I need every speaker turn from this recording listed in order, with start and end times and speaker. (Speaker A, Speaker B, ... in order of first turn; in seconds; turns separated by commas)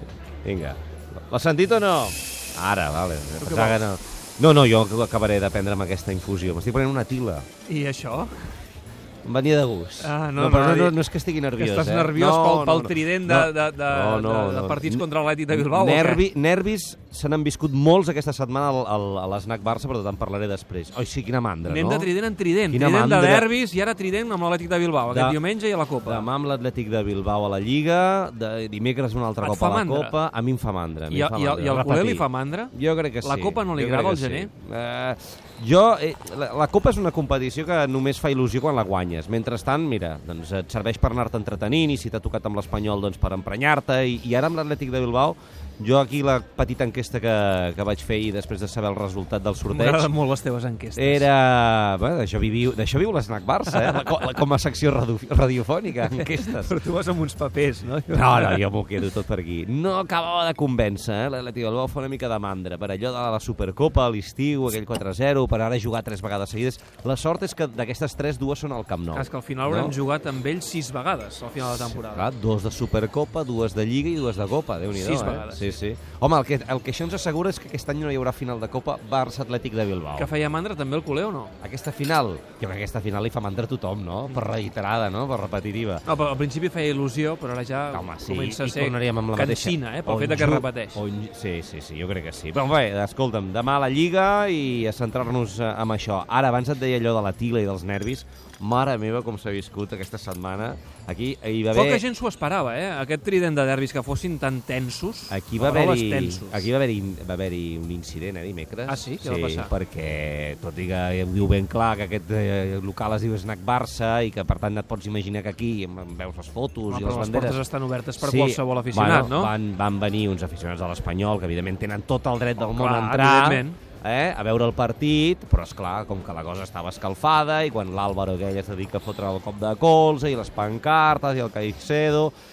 Speaker A: 0.4-7.5, Speaker B: 3.4-3.9, Speaker B: 7.7-8.5, Speaker A: 9.2-22.1, Speaker B: 10.0-11.0, Speaker B: 11.5-16.2, Speaker B: 21.7-26.3, Speaker A: 22.7-23.5, Speaker A: 25.1-25.4, Speaker A: 26.0-50.1, Speaker B: 29.4-30.1, Speaker B: 31.1-34.5, Speaker B: 49.7-51.3, Speaker A: 51.0-56.8, Speaker B: 53.7-54.4, Speaker B: 56.0-58.7, Speaker A: 58.1-70.0, Speaker B: 69.1-72.3, Speaker A: 71.6-80.3, Speaker B: 74.9-75.8, Speaker B: 80.2-81.5, Speaker A: 81.6-86.1, Speaker B: 86.0-91.0, Speaker A: 87.9-102.0, Speaker B: 101.7-106.7, Speaker A: 105.3-117.6, Speaker B: 108.9-109.7, Speaker B: 116.9-119.5, Speaker A: 118.2-132.3, Speaker B: 122.6-123.8